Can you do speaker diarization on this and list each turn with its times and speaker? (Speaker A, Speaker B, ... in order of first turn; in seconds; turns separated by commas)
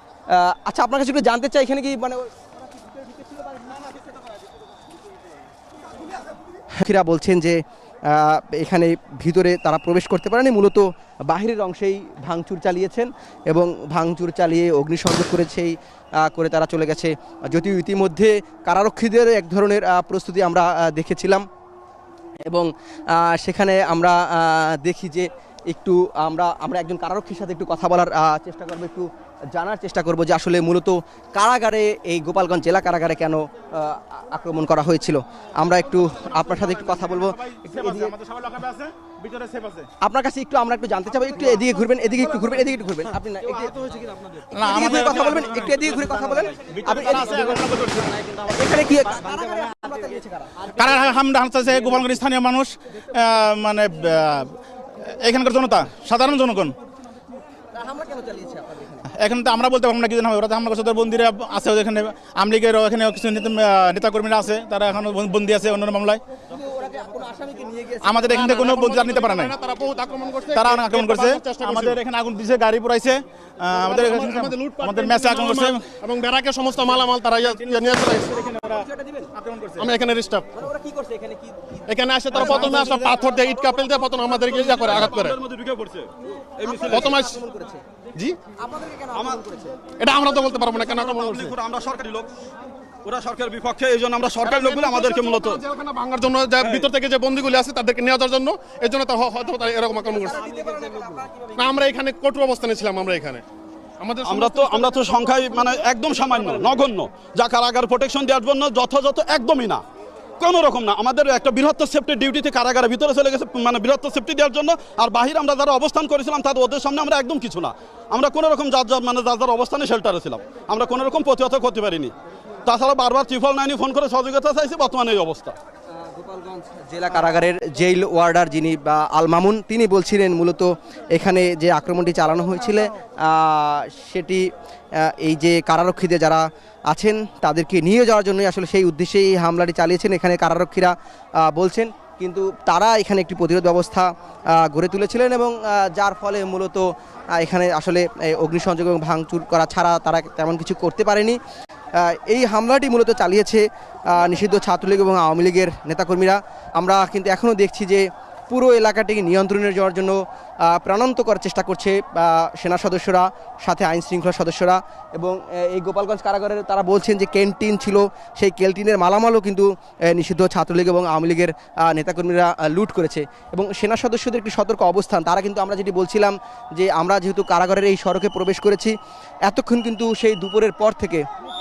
Speaker A: 0.3-2.3, Speaker A: 6.8-21.5, Speaker A: 22.5-38.2, Speaker B: 36.5-39.9, Speaker A: 40.0-43.8, Speaker C: 43.9-44.5, Speaker B: 44.5-45.9, Speaker A: 44.5-50.7, Speaker B: 46.6-48.1, Speaker B: 50.8-56.8, Speaker A: 57.7-59.0, Speaker B: 59.2-66.2, Speaker A: 66.5-68.8, Speaker B: 68.0-69.6, Speaker C: 68.3-72.0, Speaker B: 70.5-75.9, Speaker C: 73.8-78.6, Speaker B: 77.5-78.8, Speaker A: 78.7-79.3, Speaker B: 79.4-79.9, Speaker C: 79.8-80.5, Speaker A: 80.5-84.2, Speaker C: 81.9-85.4, Speaker B: 82.3-83.1, Speaker D: 84.5-87.2, Speaker A: 86.6-87.8, Speaker C: 86.9-87.4, Speaker A: 88.5-89.8, Speaker D: 89.1-89.4, Speaker C: 90.0-91.5, Speaker D: 90.8-92.3, Speaker D: 93.0-95.7, Speaker C: 94.5-100.5, Speaker D: 96.6-96.9, Speaker A: 100.0-101.6, Speaker C: 101.6-103.4, Speaker C: 104.0-105.0, Speaker D: 104.2-109.8, Speaker D: 110.4-122.1, Speaker D: 122.6-125.6, Speaker A: 126.0-151.4, Speaker A: 152.0-179.0, Speaker A: 179.5-181.3